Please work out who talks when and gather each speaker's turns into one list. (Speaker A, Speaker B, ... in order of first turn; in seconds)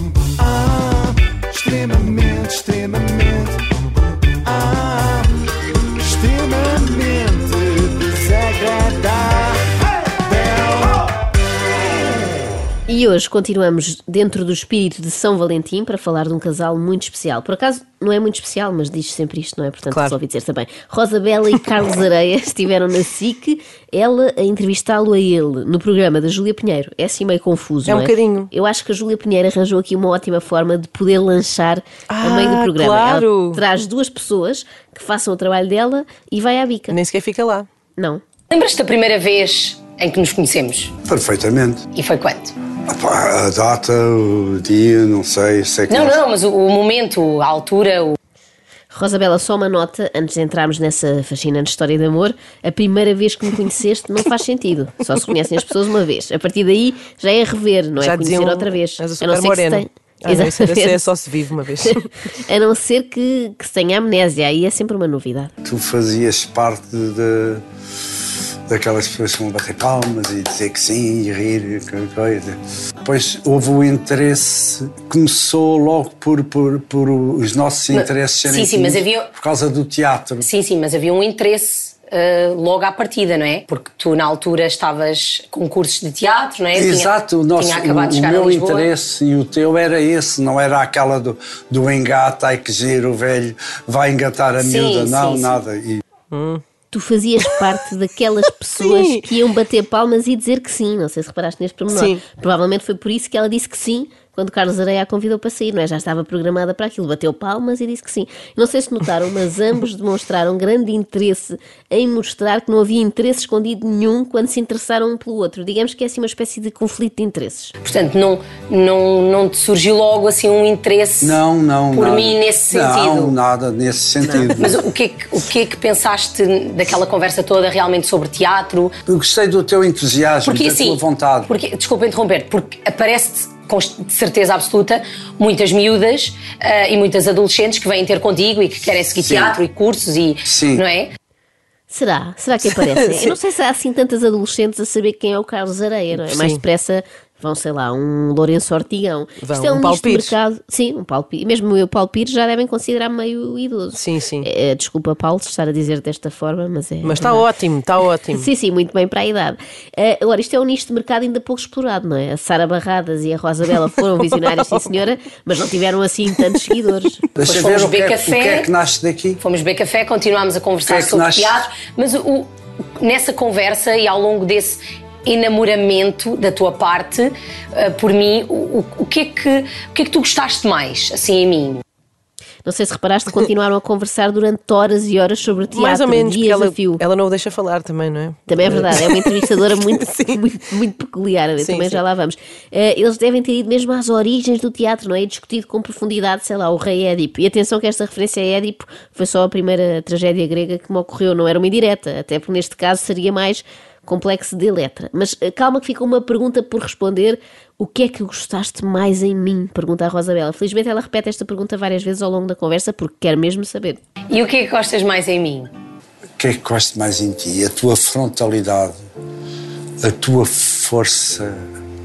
Speaker A: 0.6-3.5, 4.4-5.3, 6.0-9.7, 10.2-10.8
Speaker B: 12.9-37.0, 38.0-38.2, 48.9-61.0, 61.8-65.5, 96.9-117.7, 141.9-157.5, 158.3-167.2, 182.6-187.0, 188.5-214.0
Speaker C: 19.9-20.2, 27.9-28.5, 32.1-33.6, 36.9-37.7, 58.0-62.1, 96.3-96.6, 98.8-99.3, 101.9-102.2, 146.2-146.6, 149.4-150.3, 154.0-154.5, 157.0-158.5, 185.7-190.4, 191.6-192.0
Speaker D: 38.5-40.9, 42.0-42.5, 45.9-48.2, 77.9-79.3, 80.4-88.9, 94.6-95.6, 117.8-121.4, 121.9-123.4, 124.5-128.9, 130.4-141.1, 167.4-168.7, 169.4-181.8, 214.3-215.7
Speaker E: 41.0-41.9, 42.9-46.2, 65.6-67.6, 68.7-80.5, 86.8-96.0, 121.2-124.8, 129.1-131.5, 139.2-139.6, 140.4-140.8, 167.3-169.4, 170.9-171.7, 216.4-218.9, 220.0-221.6